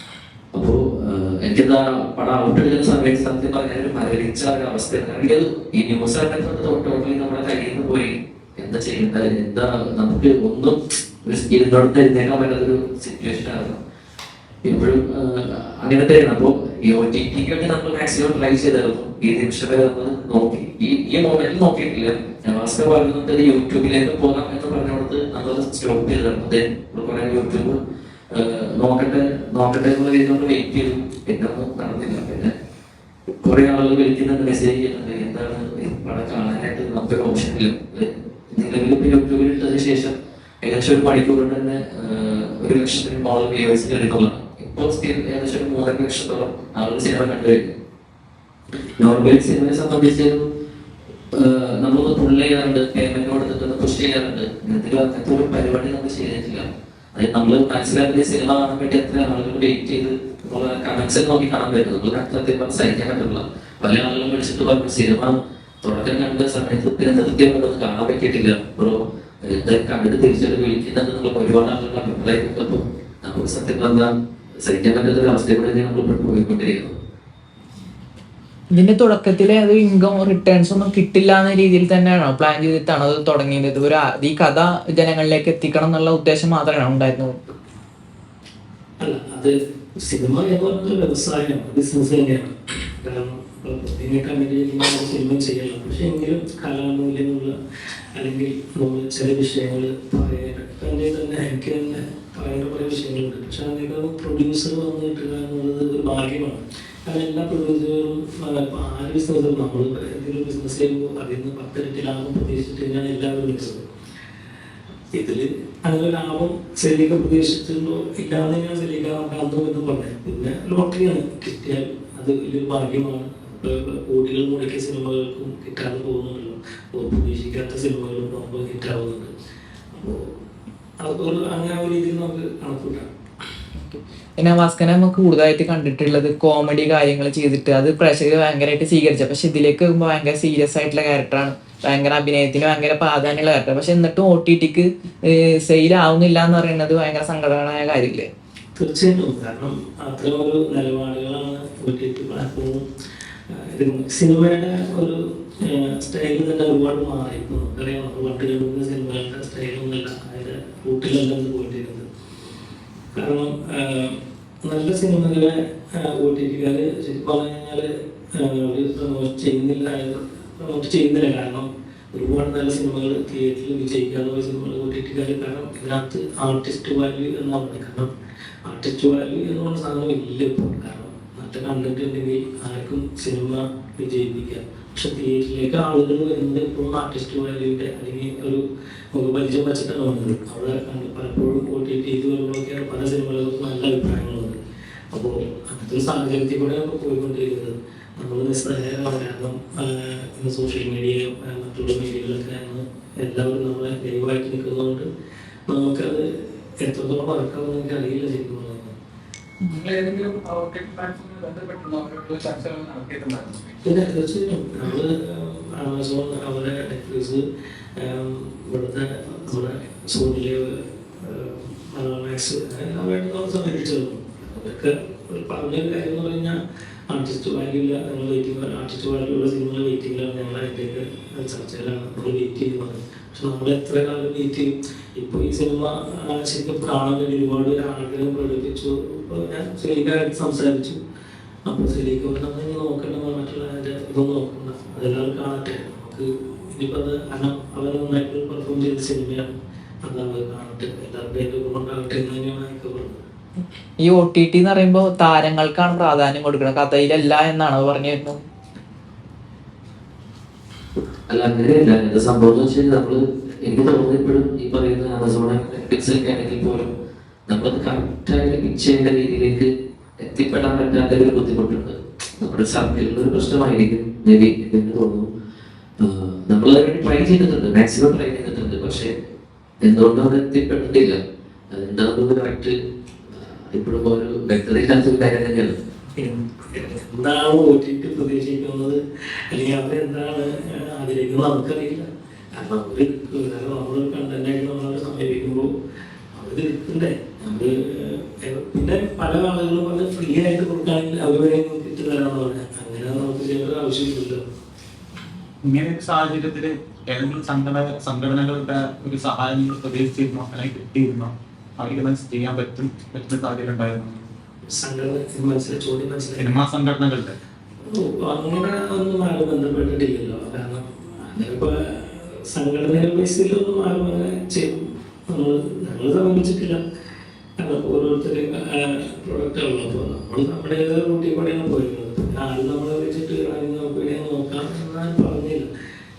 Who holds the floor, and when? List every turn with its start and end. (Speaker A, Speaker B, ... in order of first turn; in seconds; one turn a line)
Speaker A: 0.5-13.8
Speaker A: 14.6-27.8
Speaker A: 28.3-32.5
Speaker A: 33.4-47.7
Speaker A: 49.0-50.5
Speaker A: 51.3-74.1
Speaker A: 74.6-77.0
Speaker B: 78.7-87.3
Speaker C: 89.0-97.5
Speaker C: 98.1-113.9
Speaker C: 115.1-129.3
Speaker C: 129.9-130.2
Speaker C: 131.0-133.1
Speaker B: 133.8-148.3
Speaker C: 148.8-152.8
Speaker C: 153.5-162.1
Speaker C: 163.2-178.1
Speaker C: 178.7-194.6
Speaker C: 195.1-205.1
Speaker C: 205.7-206.3
Speaker C: 206.8-208.9
Speaker D: 209.7-213.7
Speaker C: 213.8-217.4
Speaker C: 218.0-226.6
Speaker C: 227.1-241.0
Speaker C: 241.7-249.5
Speaker C: 250.0-253.2
Speaker B: 254.0-258.4
Speaker A: 261.3-266.9
Speaker A: 267.5-275.3
Speaker A: 276.0-279.1
Speaker A: 279.8-281.2
Speaker A: 281.7-282.7
Speaker A: 283.3-285.8
Speaker C: 286.1-289.0
Speaker C: 289.5-295.7
Speaker C: 296.3-304.4
Speaker D: 305.6-314.2
Speaker C: 314.6-316.5
Speaker D: 316.4-317.4
Speaker C: 317.9-326.8
Speaker C: 327.6-335.7